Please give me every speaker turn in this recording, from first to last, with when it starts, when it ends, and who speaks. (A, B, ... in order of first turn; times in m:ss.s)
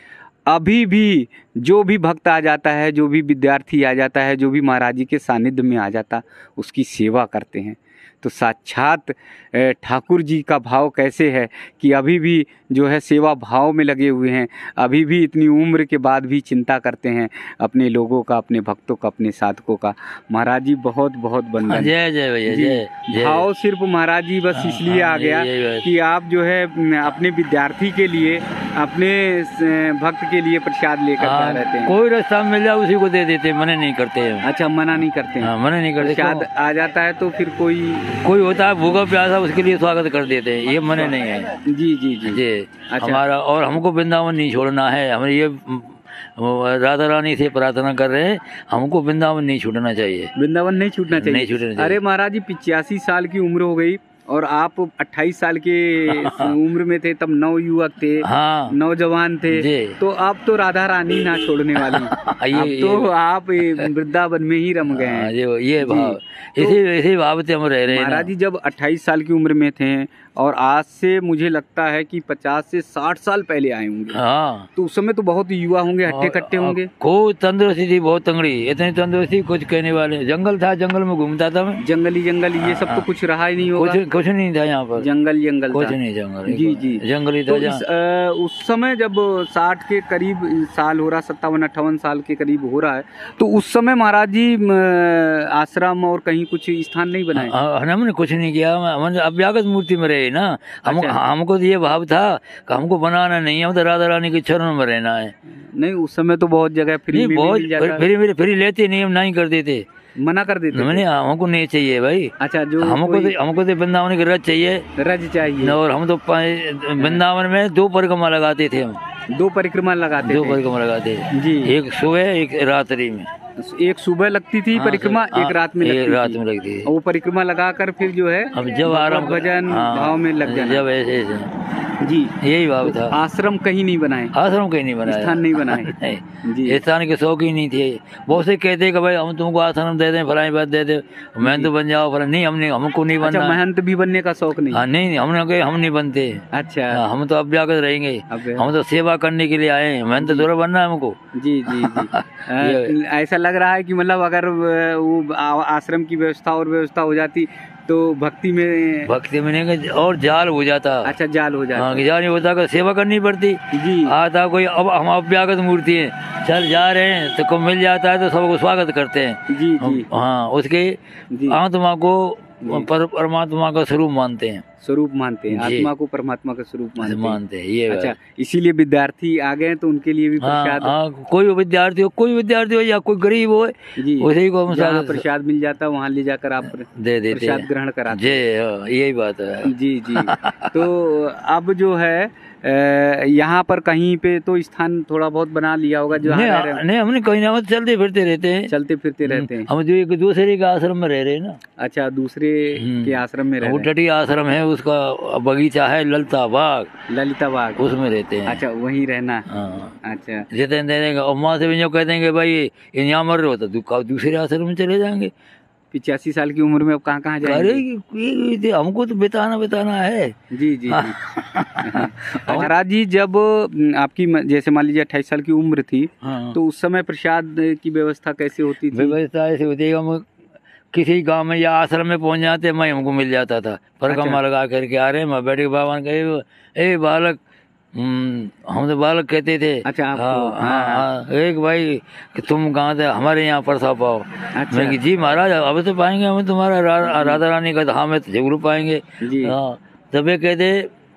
0:00.5-0:21.9 A
0:21.6-0:23.4 B
0:22.5-0:31.9 A
0:24.5-0:25.9 B
0:31.2-0:34.4 B
0:34.4-0:38.2 A
0:35.4-0:36.4 B
0:38.2-0:41.6 B
0:41.6-0:43.2 A
0:42.2-0:50.3 B
0:50.4-1:06.8 A
0:51.1-0:52.0 B
0:56.1-0:56.5 B
0:58.2-0:58.7 B
0:59.5-1:00.0 B
1:01.8-1:03.1 B
1:04.9-1:08.3 B
1:07.9-1:14.2 A
1:14.1-1:14.7 B
1:14.8-1:16.9 A
1:16.1-1:21.8 B
1:21.8-1:24.0 A
1:22.6-1:23.0 B
1:23.7-1:25.1 B
1:25.0-1:26.0 A
1:25.7-1:27.8 B
1:26.5-1:37.5 A
1:37.4-1:45.3 B
1:40.8-1:41.2 A
1:45.4-1:48.0 A
1:47.1-1:49.8 B
1:50.2-1:51.0 A
1:50.7-1:54.8 B
1:52.4-1:53.3 A
1:55.0-1:55.8 A
1:55.6-1:59.0 B
1:59.3-2:00.6 A
2:00.2-2:03.3 B
2:01.3-2:01.8 A
2:03.6-2:10.8 A
2:04.7-2:06.9 B
2:08.5-2:11.5 B
2:12.0-2:14.3 A
2:12.4-2:13.1 B
2:14.3-2:23.6 B
2:15.0-2:16.8 A
2:21.4-2:21.7 A
2:23.2-2:24.8 A
2:24.7-2:31.2 B
2:26.5-2:27.0 A
2:28.3-2:28.7 A
2:30.2-2:30.5 A
2:31.3-2:39.1 A
2:31.7-2:32.9 B
2:39.1-2:41.1 B
2:41.0-2:42.0 A
2:41.8-2:54.6 B
2:43.7-2:44.2 A
2:49.5-2:50.1 A
2:51.3-2:51.6 A
2:52.6-2:52.9 A
2:54.8-3:00.9 A
2:55.5-2:55.9 B
2:57.0-2:58.1 B
3:00.4-3:05.2 B
3:04.0-3:08.4 A
3:06.9-3:10.7 B
3:09.6-3:16.8 A
3:16.2-3:18.7 B
3:18.7-3:19.7 A
3:19.2-3:21.6 B
3:21.8-3:23.9 A
3:22.8-3:26.9 B
3:27.1-3:27.8 A
3:27.8-3:28.6 B
3:28.4-3:29.5 A
3:29.5-3:30.0 B
3:30.0-3:30.5 A
3:30.5-3:35.3 B
3:35.9-3:37.8 A
3:37.4-3:40.4 B
3:40.5-3:41.2 A
3:40.9-3:42.7 B
3:41.8-3:49.2 A
3:46.2-3:46.6 B
3:48.9-3:50.2 B
3:50.9-3:57.4 B
3:54.1-3:54.4 A
3:57.9-4:10.9 B
3:59.8-4:01.1 A
4:04.5-4:05.0 A
4:07.0-4:07.4 A
4:09.2-4:09.6 A